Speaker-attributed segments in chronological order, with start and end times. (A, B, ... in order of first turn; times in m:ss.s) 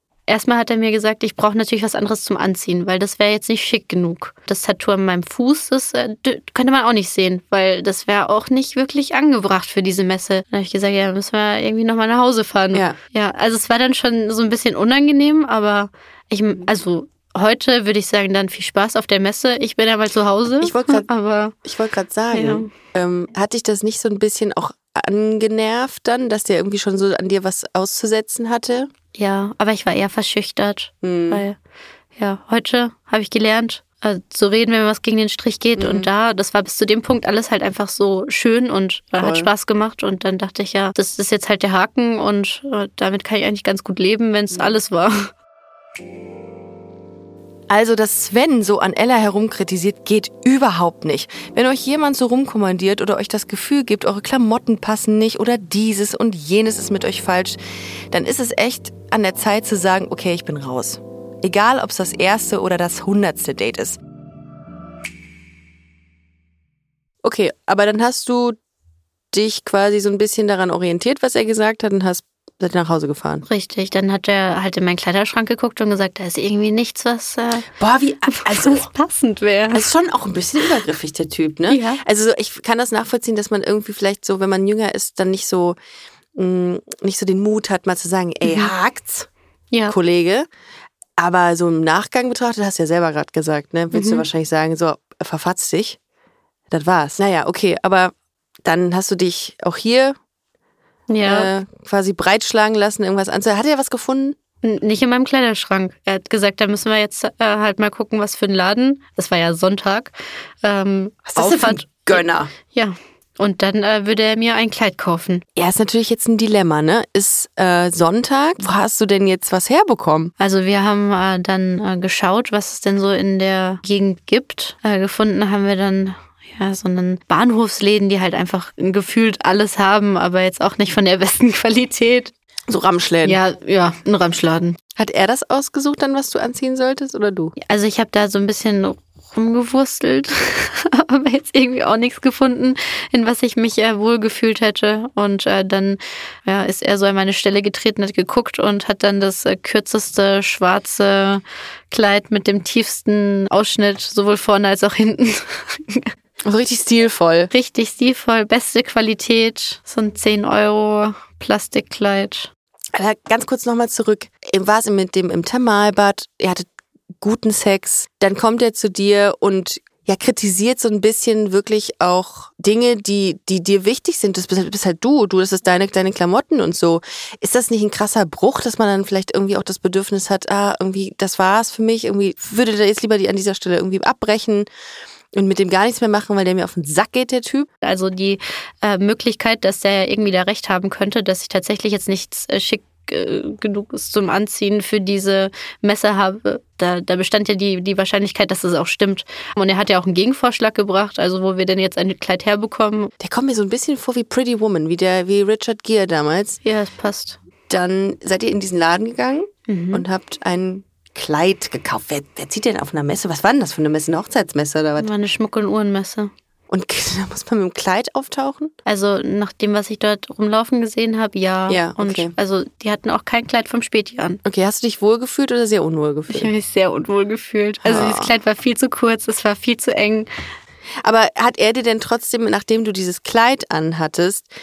0:00.3-0:21.5 A
0:20.6-0:21.1 B
0:21.6-0:28.9 B
0:22.3-0:22.7 A
0:29.1-0:31.6 A
0:31.0-0:31.4 B
0:32.2-0:45.3 A
0:35.8-0:36.1 B
0:39.2-0:39.5 B
0:44.5-0:44.8 B
0:47.7-0:57.6 B
0:58.1-1:04.0 B
1:07.2-1:08.6 B
1:09.3-1:13.4 B
1:13.5-1:17.7 A
1:17.8-1:18.9 B
1:18.3-1:19.8 A
1:19.7-1:25.8 B
1:21.7-1:22.0 A
1:26.3-1:29.3 B
1:28.4-1:28.7 A
1:29.9-1:30.5 B
1:31.2-1:36.0 B
1:33.9-1:34.2 A
1:36.7-1:40.2 B
1:41.1-1:41.5 A
1:41.2-1:44.4 B
1:44.6-1:55.4 A
1:51.3-1:52.5 B
1:55.6-2:00.3 B
2:00.4-2:12.3 A
2:12.7-2:13.4 B
2:13.2-2:14.8 A
2:15.0-2:17.5 B
2:17.6-2:36.1 A
2:36.4-2:37.5 B
2:37.5-2:42.5 A
2:42.9-2:46.7 B
2:47.2-3:04.7 B
3:05.3-3:07.7 B
3:07.8-3:23.1 A
3:23.2-3:26.6 B
3:26.6-3:27.4 A
3:27.7-3:35.1 B
3:29.7-3:30.0 A
3:35.0-3:36.3 A
3:36.7-3:38.7 B
3:38.8-3:44.4 A
3:41.7-3:42.3 B
3:44.4-3:46.5 B
3:46.3-3:50.3 A
3:47.8-3:48.3 B
3:51.0-3:54.5 B